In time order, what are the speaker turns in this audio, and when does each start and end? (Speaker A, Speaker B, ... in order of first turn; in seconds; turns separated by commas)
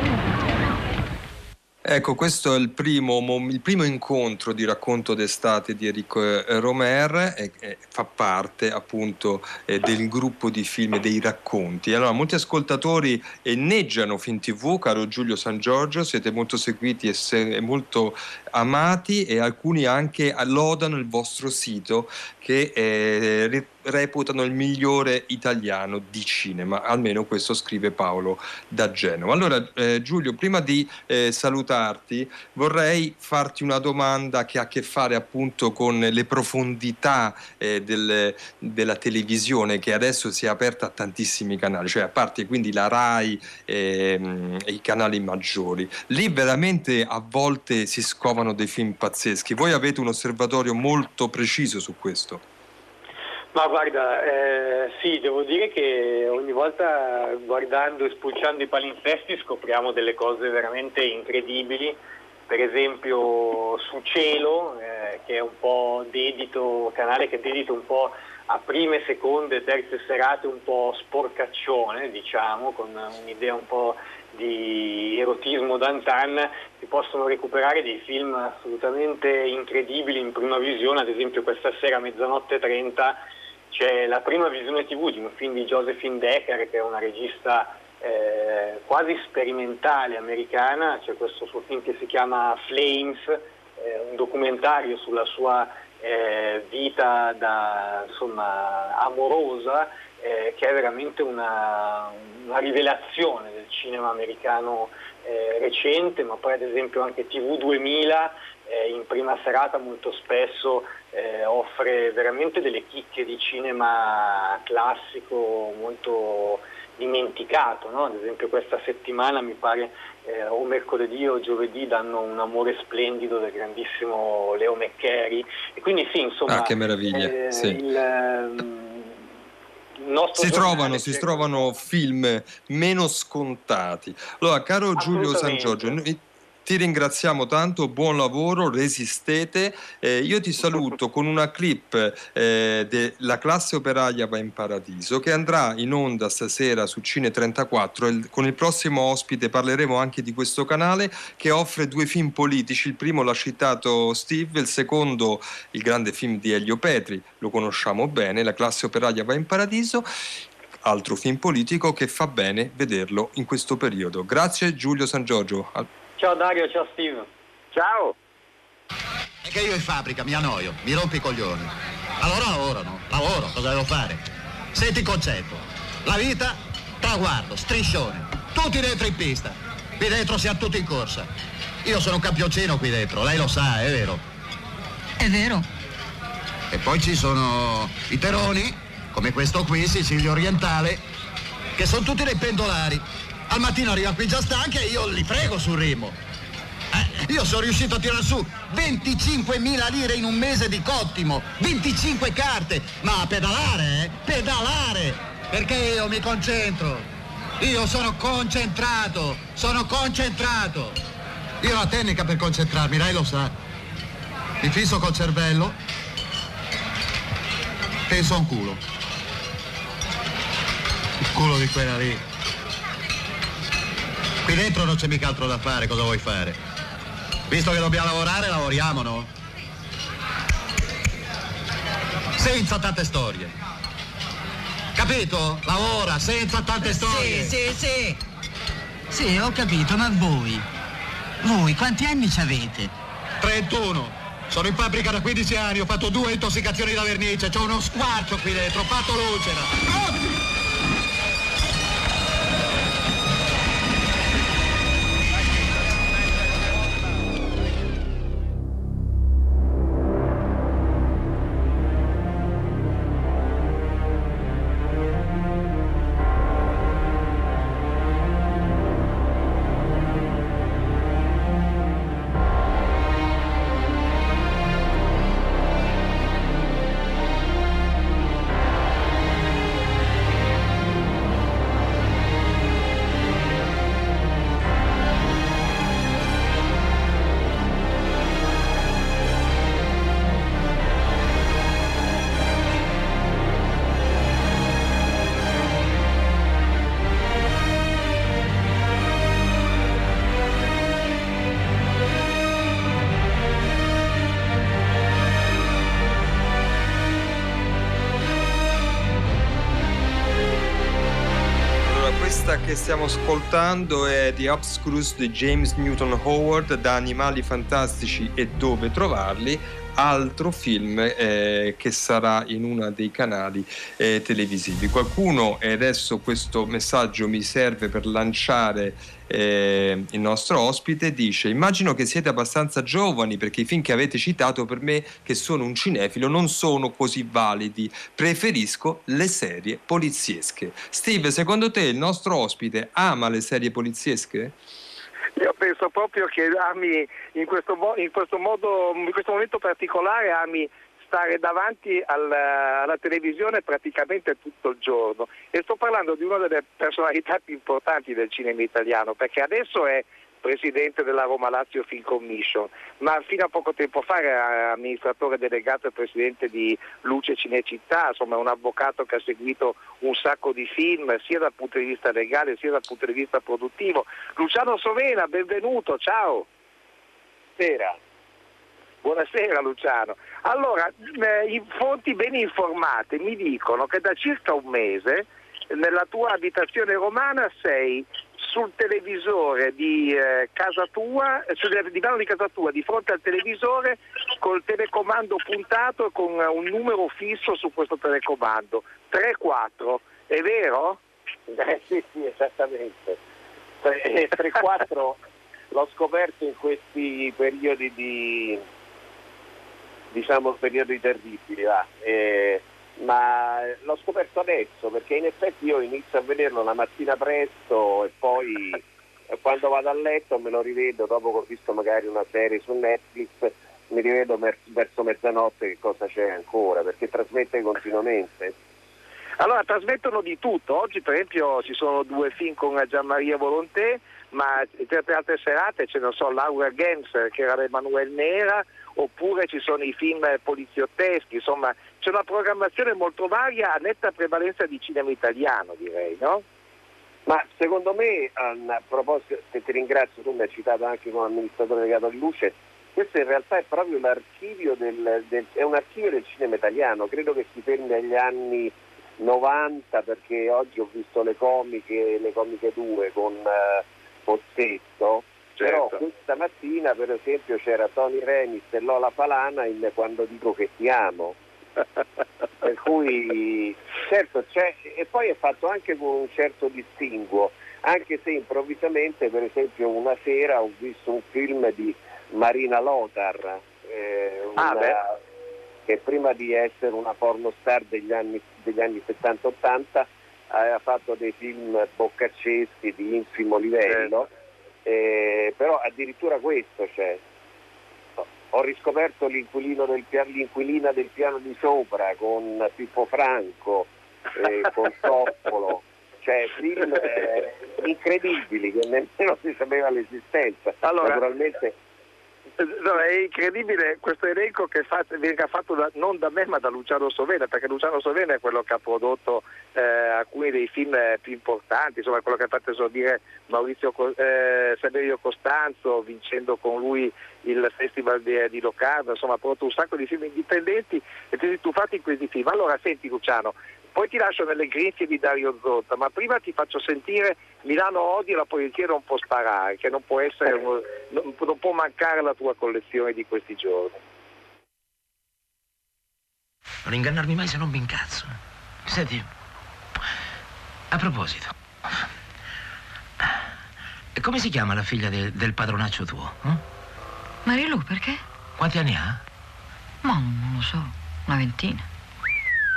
Speaker A: 1.8-52.4, Speaker B: 53.5-62.0, Speaker B: 62.5-83.2, Speaker B: 83.7-129.2, Speaker A: 126.5-127.8, Speaker B: 130.0-131.7, Speaker A: 130.3-160.1, Speaker B: 135.0-136.0, Speaker A: 160.8-165.9, Speaker B: 166.2-167.3, Speaker C: 167.7-168.2, Speaker D: 169.4-181.3, Speaker D: 181.8-184.2, Speaker E: 185.2-185.7, Speaker D: 186.7-191.0, Speaker D: 191.8-196.2, Speaker D: 196.9-207.1, Speaker D: 207.6-211.0, Speaker D: 211.6-213.5, Speaker D: 214.6-215.8, Speaker D: 218.1-218.8, Speaker D: 221.3-222.2, Speaker D: 224.4-226.6, Speaker D: 227.5-229.3, Speaker D: 232.4-233.5, Speaker D: 234.9-237.6, Speaker E: 236.8-238.2, Speaker E: 239.1-240.7, Speaker E: 241.4-242.9, Speaker D: 243.4-249.9, Speaker A: 311.8-344.5, Speaker C: 345.4-376.5, Speaker F: 377.6-378.0, Speaker C: 379.0-401.0, Speaker F: 401.5-403.2, Speaker F: 403.8-405.2, Speaker F: 405.7-408.6, Speaker F: 410.1-418.8, Speaker F: 419.4-428.5, Speaker C: 429.4-446.4, Speaker F: 447.2-471.4, Speaker F: 472.6-485.1, Speaker C: 484.6-485.0, Speaker F: 485.9-494.3, Speaker F: 494.8-497.2, Speaker F: 498.2-511.7, Speaker C: 510.8-511.2, Speaker C: 512.6-544.0, Speaker G: 546.8-549.3, Speaker G: 550.9-551.5, Speaker G: 554.1-556.6, Speaker H: 557.4-558.2, Speaker G: 558.6-559.2, Speaker H: 560.0-561.9